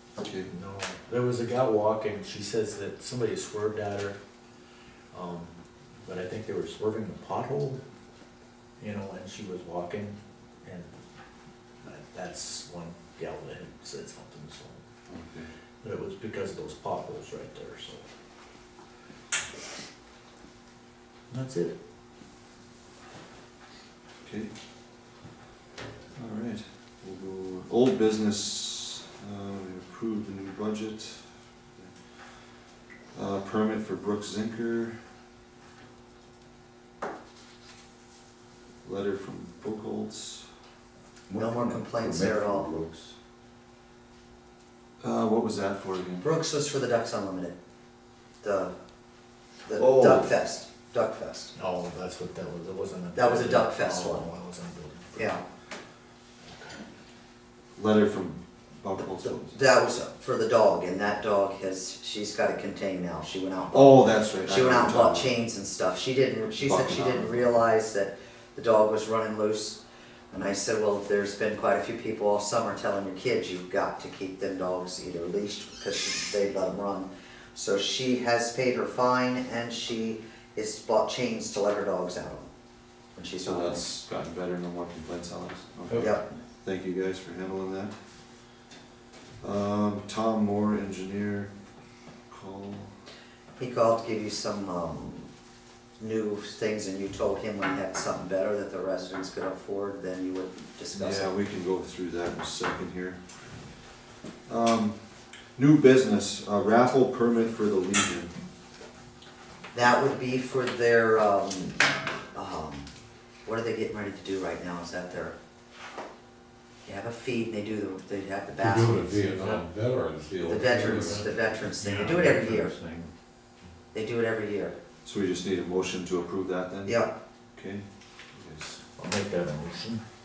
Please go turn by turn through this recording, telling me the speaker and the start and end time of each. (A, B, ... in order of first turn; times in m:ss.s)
0:00.2-0:00.5 A
0:00.5-0:04.2 B
0:05.1-0:05.5 B
0:06.0-0:07.8 B
0:08.8-0:10.9 B
0:11.8-0:14.8 B
0:15.1-0:15.5 A
0:15.8-0:18.0 B
0:21.3-0:21.7 B
0:24.2-0:24.5 A
0:26.2-0:32.6 A
0:33.1-0:35.0 A
0:38.8-0:40.4 A
0:41.3-0:43.1 C
0:41.4-0:42.7 D
0:45.0-0:46.2 A
0:46.2-0:47.5 D
0:48.4-0:48.7 D
0:49.6-0:51.5 D
0:49.8-0:50.3 C
0:51.5-0:55.4 B
0:53.1-0:54.3 D
0:55.2-0:55.4 D
0:56.5-0:56.8 B
0:57.8-0:59.6 A
0:59.0-1:09.8 D
1:03.7-1:05.3 A
1:06.5-1:07.5 A
1:10.3-1:22.5 D
1:23.1-1:23.8 D
1:23.4-1:27.9 A
1:25.9-1:26.1 B
1:26.0-1:26.2 D
1:29.4-1:31.5 A
1:32.3-1:32.9 A
1:33.6-1:35.3 D
1:36.0-1:41.3 D
1:40.9-1:43.2 A
1:44.4-1:45.0 A
1:45.5-1:48.4 A
1:49.7-1:52.9 D
1:53.4-1:55.3 D
1:56.8-1:59.2 D
1:58.6-2:03.0 E
1:59.2-1:59.6 B
2:00.4-2:02.8 D
2:00.7-2:01.3 B
2:03.9-2:04.7 D
2:05.0-2:07.0 A
2:06.8-2:07.1 D
2:07.6-2:08.8 A
2:08.9-2:10.0 B